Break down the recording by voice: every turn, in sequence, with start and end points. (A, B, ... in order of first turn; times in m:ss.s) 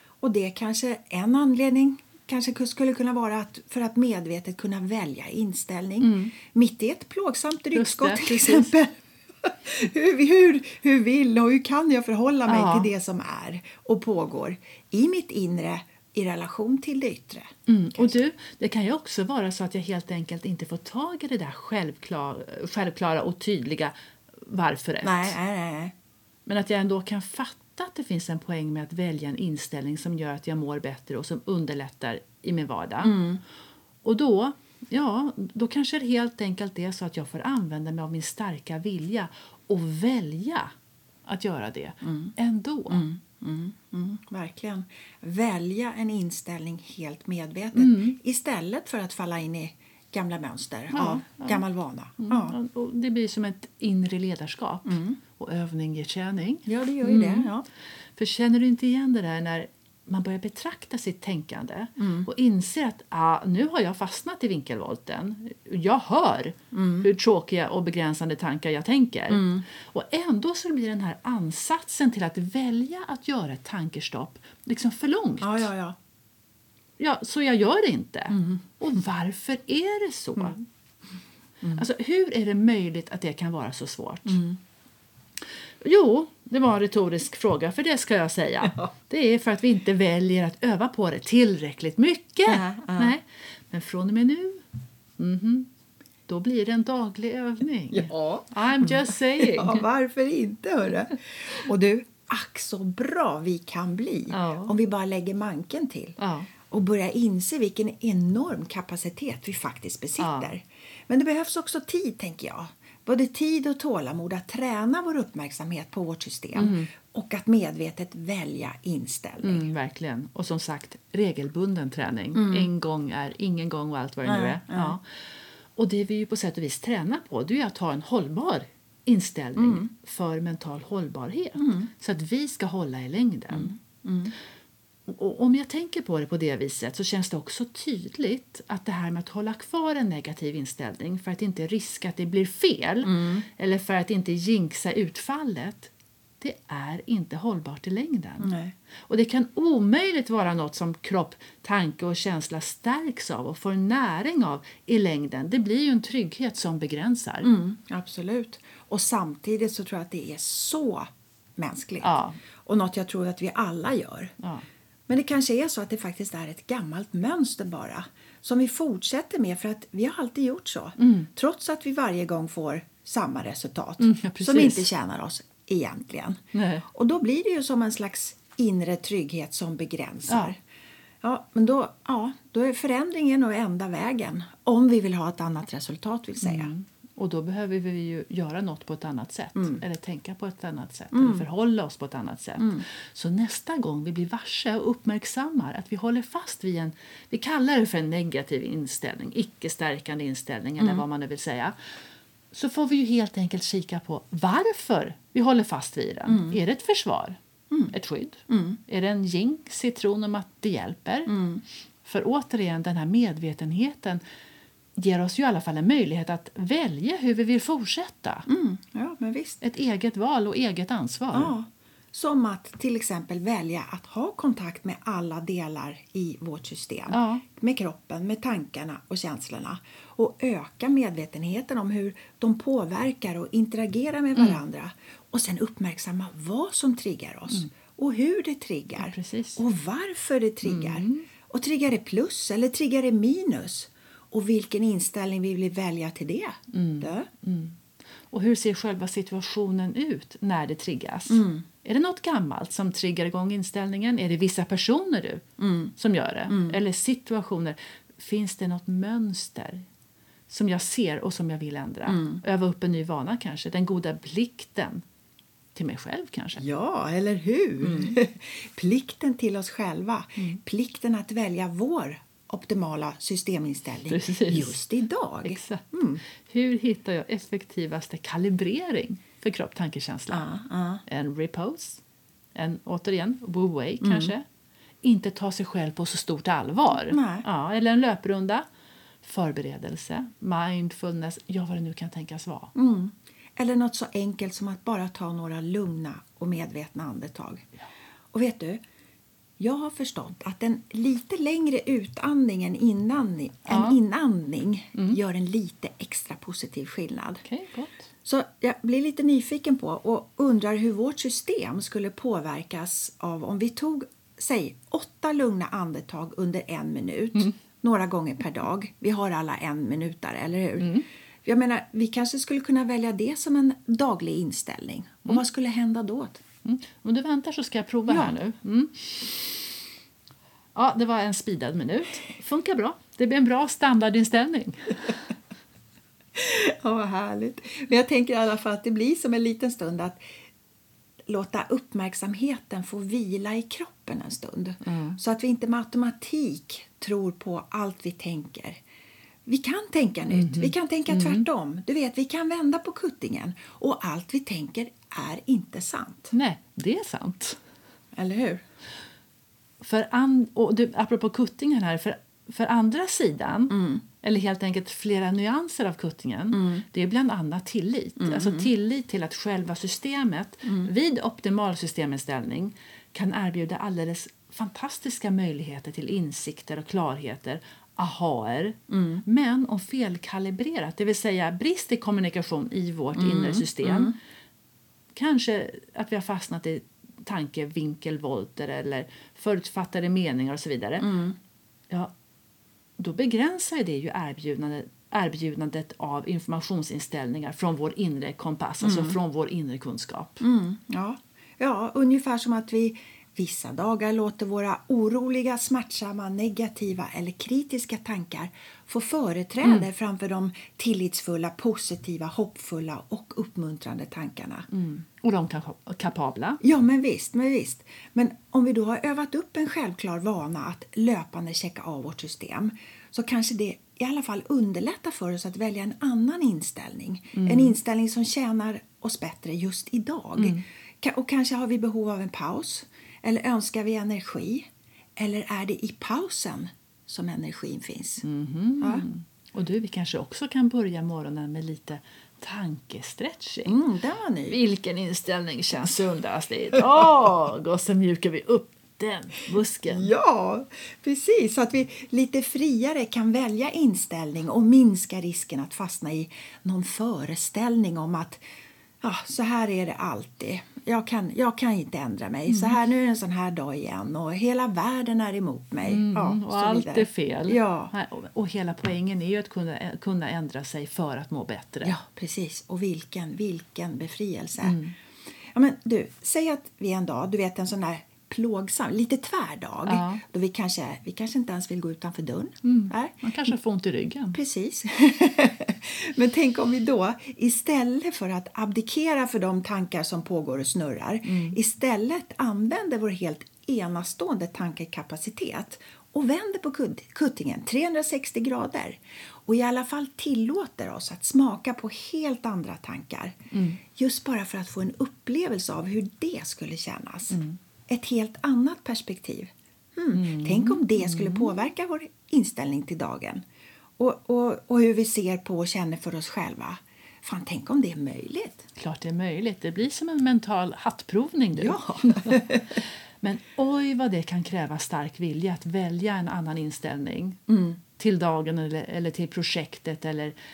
0:00.2-0:18.1 A
0:06.0-0:06.3 B
0:07.7-0:08.7 B
0:12.5-0:12.9 B
0:17.7-0:25.4 B
0:25.0-0:25.9 A
0:26.4-0:33.2 B
0:33.0-0:33.4 A
0:34.0-0:40.7 B
0:41.3-0:43.0 B
0:42.0-0:42.3 A
0:42.9-0:52.6 A
0:47.7-0:48.2 B
0:50.9-0:51.6 B
0:52.2-0:57.5 B
0:54.8-0:55.2 A
0:56.6-0:57.6 A
0:58.2-1:15.7 B
1:02.0-1:02.3 A
1:06.7-1:07.1 A
1:09.3-1:09.6 A
1:15.4-1:16.0 A
1:17.0-1:20.6 B
1:18.3-1:18.6 A
1:21.7-1:24.4 B
1:24.2-1:24.6 A
1:25.8-1:34.6 B
1:32.4-1:33.1 A
1:35.2-1:35.7 B
1:36.3-1:39.8 B
1:37.9-1:46.2 A
1:44.3-1:44.7 B
1:46.2-1:46.5 B
1:46.7-1:59.7 A
1:50.2-1:50.5 B
1:56.5-1:56.9 B
1:59.4-2:05.1 B
2:02.3-2:02.7 A
2:04.2-2:05.0 A
2:05.8-2:13.7 B
2:09.6-2:09.9 A
2:11.6-2:11.9 A
2:13.5-2:14.3 A
2:15.1-2:28.5 B
2:23.0-2:23.4 A
2:28.4-2:28.7 A
2:29.1-2:37.5 B
2:37.4-2:44.4 A
2:42.0-2:42.4 B
2:44.4-2:44.6 B
2:45.1-3:00.6 A
2:51.0-2:51.3 B
2:54.0-2:54.9 B
2:56.5-2:56.8 B
3:01.2-3:06.7 A
3:06.4-3:21.7 B
3:09.6-3:09.8 A
3:11.1-3:11.4 A
3:12.6-3:12.8 A
3:22.5-3:27.4 B
3:26.2-3:26.6 A
3:27.9-3:31.3 B
3:28.5-3:28.8 A
3:31.3-3:31.6 A
3:32.0-3:34.2 B
3:35.0-3:38.4 B
3:38.5-3:39.6 A
3:39.6-3:41.5 B
3:41.3-4:07.3 A
3:47.1-3:47.4 B
3:54.4-3:54.6 B
3:59.0-3:59.6 B
4:00.6-4:01.2 B
4:06.7-4:07.8 B
4:08.3-4:15.4 B
4:11.3-4:11.6 A
4:15.6-4:15.9 A
4:16.0-4:19.8 B
4:16.5-4:16.8 A
4:20.5-4:25.0 B
4:22.1-4:22.4 A
4:25.7-4:26.6 B
4:26.6-4:36.2 A
4:27.8-4:28.2 B
4:34.1-4:34.8 B
4:35.4-4:40.4 B
4:40.3-4:41.0 A
4:41.0-4:42.0 B
4:42.5-4:44.4 B
4:44.0-4:44.3 A
4:45.0-4:48.6 B
4:46.9-4:47.4 A
4:49.2-4:52.7 B
4:52.7-4:57.7 A
4:58.3-4:58.8 A
4:59.6-5:07.4 A
5:03.7-5:04.0 B
5:07.4-5:08.1 B
5:08.2-5:26.4 A
5:20.8-5:21.0 B
5:26.6-5:29.7 B
5:28.1-5:28.4 A
5:30.7-5:35.2 B
5:36.3-5:40.2 A
5:41.3-5:48.8 A
5:44.8-5:45.2 B
5:49.4-5:56.3 A
5:50.3-5:51.4 B
5:56.3-5:57.6 B
5:58.1-5:58.6 A
5:59.8-6:24.2 B
6:03.7-6:04.0 A
6:06.5-6:06.8 A
6:08.2-6:08.7 A
6:10.6-6:10.9 A
6:18.9-6:19.2 A
6:23.1-6:24.2 A
6:25.1-6:31.1 B
6:31.0-6:31.4 A
6:33.0-6:40.4 B
6:38.8-6:39.2 A
6:40.4-6:54.7 A
6:49.6-6:49.9 B
6:54.7-6:56.6 B
6:56.6-7:18.2 A
7:07.3-7:07.8 B
7:10.4-7:10.6 B
7:18.2-7:23.8 B
7:23.6-7:24.6 A
7:24.5-7:30.1 B
7:29.9-7:38.4 A
7:39.0-7:47.9 A
7:42.5-7:42.8 B
7:45.8-7:51.9 B
7:51.8-7:54.8 A
7:54.6-7:54.9 B
7:55.5-8:03.5 A
7:59.8-8:00.2 B
8:02.6-8:04.4 B
8:04.3-8:33.4 A
8:11.2-8:11.6 B
8:23.5-8:23.8 B
8:27.3-8:27.6 B
8:30.1-8:31.7 B
8:34.0-8:38.6 A
8:38.8-8:47.4 B
8:41.6-8:42.8 A
8:47.5-8:47.8 A
8:48.0-8:50.3 B